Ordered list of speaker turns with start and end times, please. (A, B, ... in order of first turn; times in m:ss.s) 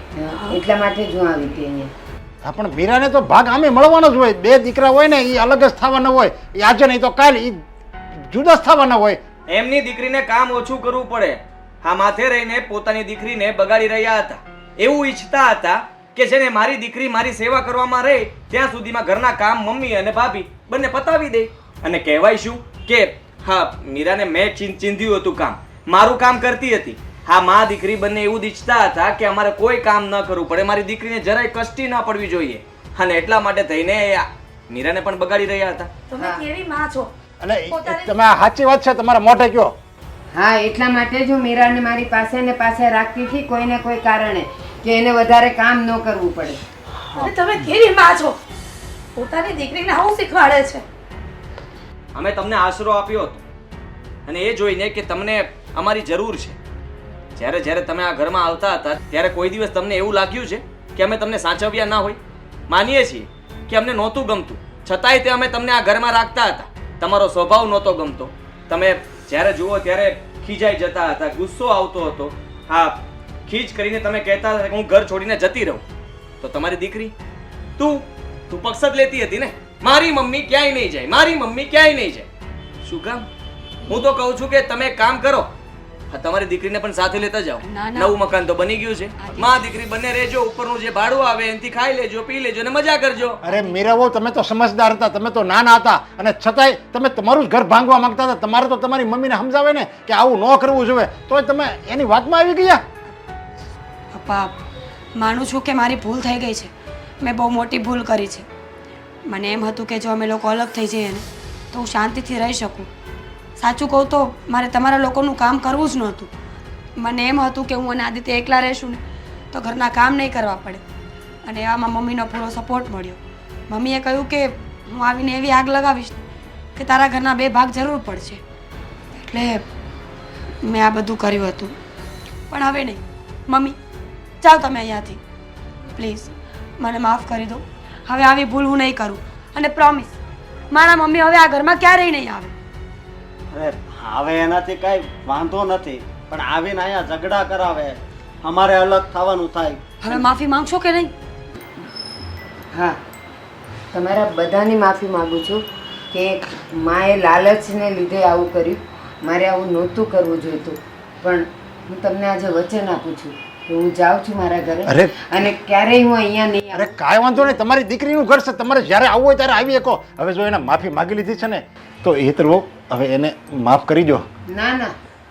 0:00.1-0:01.9 A
0:02.4-0:07.6 B
0:08.3-0:09.2 B
0:09.5-0:35.9 C
0:36.1-0:37.1 D
0:37.4-0:39.8 B
0:37.7-0:38.2 D
0:40.3-0:46.6 A
0:47.2-0:48.4 D
0:49.2-0:50.8 D
0:52.1-0:53.4 C
0:54.2-0:56.6 C
0:57.4-1:02.2 C
1:02.7-1:15.8 C
1:16.4-1:17.1 C
1:17.8-1:22.3 C
1:22.8-1:23.3 C
1:23.9-1:25.5 C
1:26.1-1:33.4 C
1:27.6-1:28.1 E
1:29.2-1:29.6 E
1:33.4-1:42.8 B
1:33.5-1:33.8 E
1:44.1-1:44.6 E
1:45.1-1:48.5 E
1:49.2-1:52.9 E
1:53.6-1:56.3 E
1:57.0-1:59.0 E
1:59.5-2:00.8 E
2:01.4-2:06.2 E
2:06.8-2:08.4 E
2:09.2-2:09.6 E
2:10.6-2:11.8 E
2:12.5-2:13.8 E
2:14.4-2:15.2 E
2:15.9-2:20.1 E
2:20.7-2:22.5 E
2:23.5-2:29.8 F
2:30.0-2:31.1 E
2:33.9-2:47.6 A
2:44.9-2:45.1 B
2:46.7-2:54.2 B
2:54.5-2:54.9 A